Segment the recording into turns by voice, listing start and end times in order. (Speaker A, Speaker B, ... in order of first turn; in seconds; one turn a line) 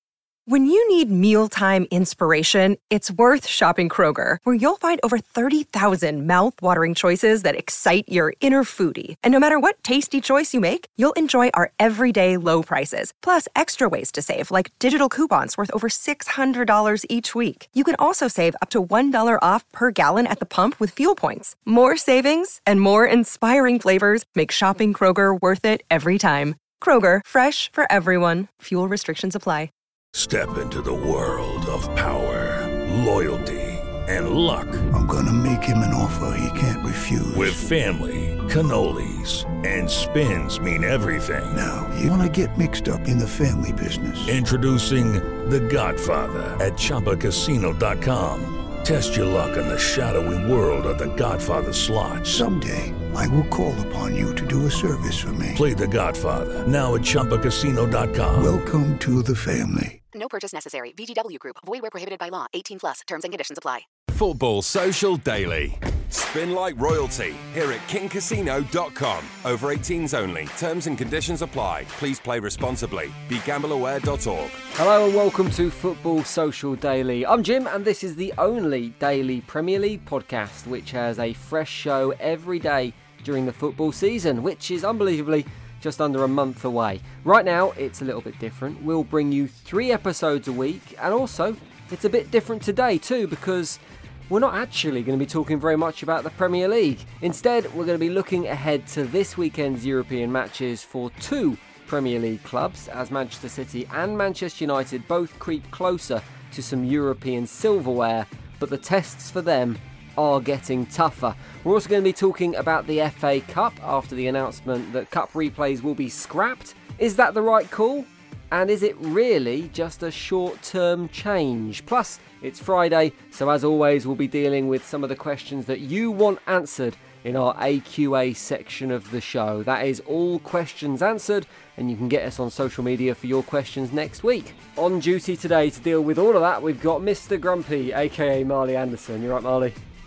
Speaker A: 0.5-29.7
Speaker B: 30.1-34.9
Speaker C: 34.9-37.6
Speaker B: 37.3-41.6
Speaker C: 41.5-44.4
Speaker B: 44.3-52.5
Speaker C: 52.3-55.6
Speaker B: 55.5-58.5
Speaker C: 58.4-60.0
Speaker D: 60.1-63.9
Speaker E: 64.1-74.6
Speaker F: 74.8-139.8